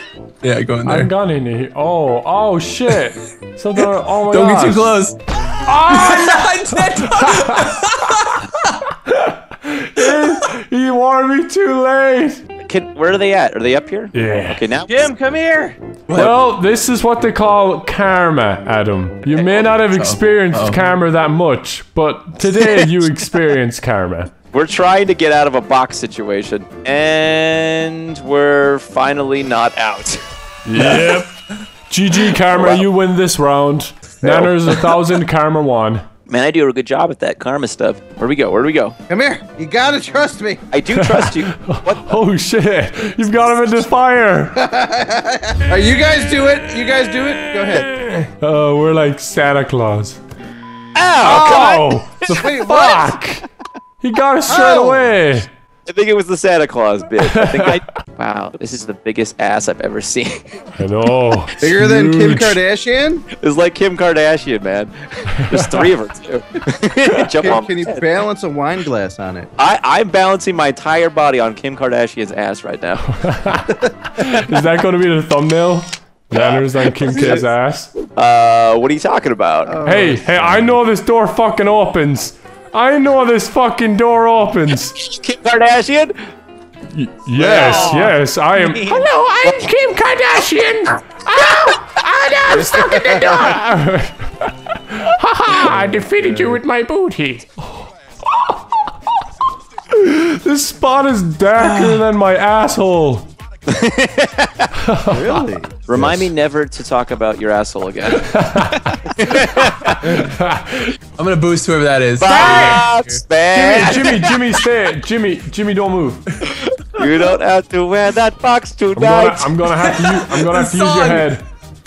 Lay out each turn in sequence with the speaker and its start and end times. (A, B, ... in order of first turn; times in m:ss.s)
0:00.4-0:01.1 A
0:00.8-0:04.9 B
0:03.8-0:05.2 A
0:05.6-0:07.7 B
0:05.9-0:08.8 A
0:09.0-0:12.4 B
0:12.6-0:15.1 C
0:14.1-0:14.6 B
0:14.9-0:15.8 D
0:16.1-0:16.3 A
0:16.1-0:24.3 B
0:19.3-0:19.7 C
0:19.9-0:20.8 A
0:24.5-0:30.2 C
0:30.6-0:36.0 B
0:30.7-0:31.2 C
0:32.4-0:32.8 C
0:34.2-0:34.5 D
0:36.3-0:39.0 C
0:39.1-0:40.6 D
0:40.7-0:42.2 C
0:40.9-0:44.6 B
0:44.6-0:48.0 D
0:47.7-0:50.2 B
0:51.0-0:52.4 C
0:51.2-0:53.4 B
0:51.2-0:53.2 D
0:54.0-0:55.5 B
0:54.5-0:55.1 D
0:55.9-1:00.6 C
0:57.2-0:57.8 B
1:00.8-1:02.6 B
1:01.6-1:03.2 D
1:03.3-1:08.0 C
1:05.5-1:05.9 B
1:07.2-1:09.5 D
1:09.6-1:13.0 C
1:13.1-1:17.9 B
1:16.3-1:17.4 C
1:18.1-1:19.8 C
1:19.7-1:20.7 D
1:19.8-1:24.9 B
1:24.9-1:26.1 C
1:26.9-1:38.6 B
1:27.4-1:29.6 C
1:27.5-1:27.9 D
1:32.6-1:33.5 D
1:36.2-1:36.6 D
1:39.9-1:43.3 B
1:41.6-1:42.0 A
1:43.7-1:44.7 C
1:44.8-1:45.4 B
1:45.0-1:46.3 D
1:45.9-1:48.4 C
1:48.2-1:49.0 B
1:48.9-1:50.0 C
1:50.0-1:51.0 B
1:51.2-1:53.2 A
1:52.2-1:54.4 C
1:52.2-1:52.8 B
1:53.5-1:56.2 B
1:56.5-1:59.6 C
1:58.9-2:01.4 B
1:59.8-2:01.3 A